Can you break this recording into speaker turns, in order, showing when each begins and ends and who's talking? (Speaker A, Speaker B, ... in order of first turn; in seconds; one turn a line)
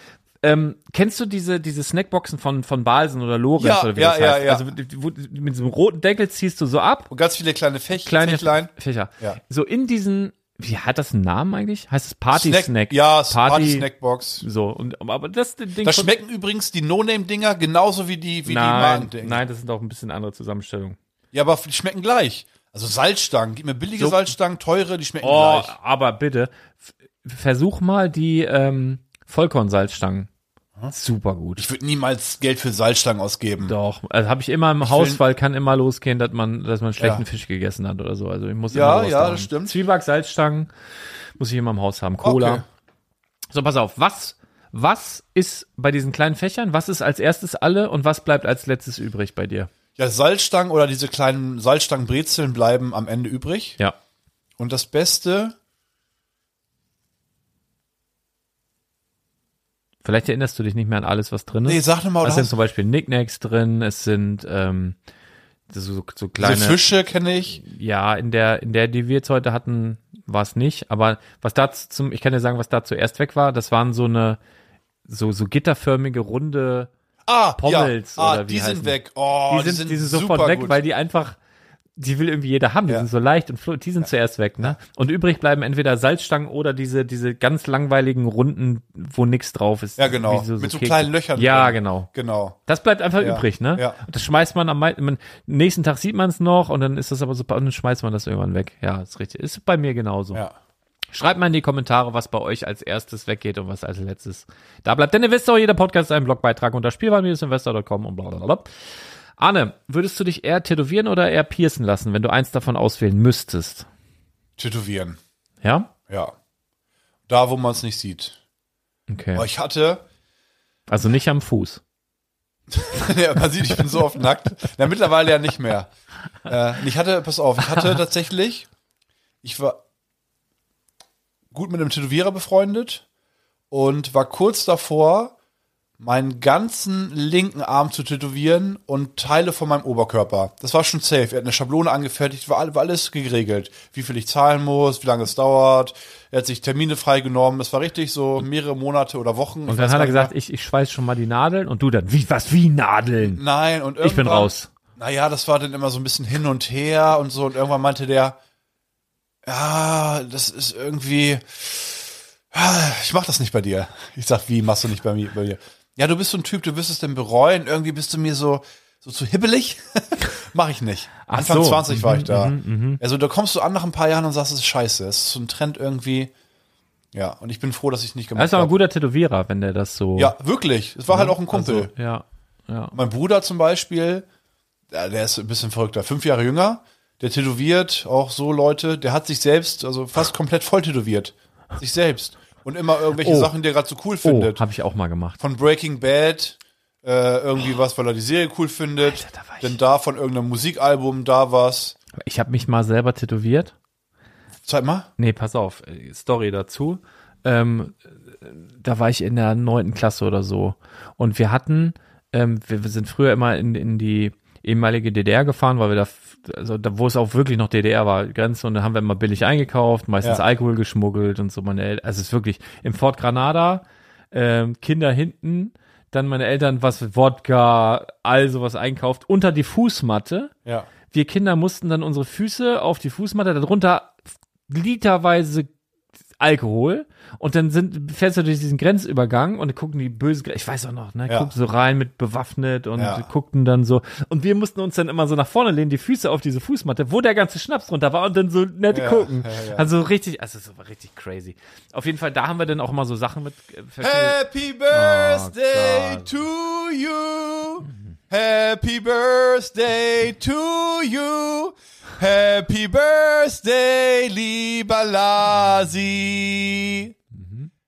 Speaker A: 0.4-7.1
Speaker B: 3.6-4.7
Speaker B: 7.1-9.4
Speaker A: 8.0-13.9
Speaker B: 12.3-14.4
Speaker A: 14.4-16.1
Speaker B: 15.8-19.4
Speaker A: 18.4-21.0
Speaker B: 21.3-25.7
Speaker A: 24.0-24.3
Speaker A: 25.2-26.5
Speaker A: 27.2-30.3
Speaker A: 30.9-31.6
Speaker B: 31.6-33.7
Speaker A: 33.6-40.7
Speaker B: 34.8-35.2
Speaker B: 37.0-37.2
Speaker B: 38.7-39.8
Speaker A: 41.4-42.6
Speaker B: 42.2-42.6
Speaker A: 43.5-49.7
Speaker B: 50.0-53.8
Speaker B: 54.6-55.5
Speaker A: 60.0-65.0
Speaker B: 61.6-62.5
Speaker A: 65.7-66.8
Speaker B: 66.4-67.6
Speaker A: 67.5-74.4
Speaker A: 75.0-76.9
Speaker B: 77.2-80.8
Speaker A: 77.6-79.0
Speaker A: 79.5-81.4
Speaker A: 82.0-92.1
Speaker B: 90.0-92.6
Speaker A: 92.7-100.4
Speaker B: 93.2-94.0
Speaker A: 101.1-108.7
Speaker A: 109.4-113.9
Speaker B: 114.6-115.2
Speaker A: 115.6-115.9
Speaker B: 116.1-116.3
Speaker B: 117.3-118.4
Speaker A: 119.1-119.5
Speaker B: 119.3-120.0
Speaker A: 120.9-121.8
Speaker B: 122.7-125.9
Speaker B: 126.4-128.7
Speaker B: 129.4-129.8
Speaker B: 131.5-133.0
Speaker B: 133.7-135.3
Speaker B: 136.0-150.3
Speaker A: 149.7-153.4
Speaker B: 153.2-158.4
Speaker A: 154.0-154.7
Speaker B: 159.4-176.3
Speaker A: 171.2-173.0
Speaker B: 177.1-178.7
Speaker A: 178.3-180.3
Speaker B: 180.2-181.9
Speaker A: 181.1-182.9
Speaker B: 182.9-184.2
Speaker B: 184.9-194.6
Speaker A: 193.2-193.5
Speaker A: 194.2-195.4
Speaker B: 195.4-201.9
Speaker A: 199.0-199.8
Speaker A: 202.2-203.7
Speaker B: 204.6-205.1
Speaker A: 205.2-230.5
Speaker A: 231.1-234.2
Speaker A: 234.7-235.7
Speaker A: 236.4-254.4
Speaker B: 242.9-243.3
Speaker B: 248.9-249.9
Speaker B: 254.0-267.1
Speaker A: 254.9-256.3
Speaker A: 267.3-267.7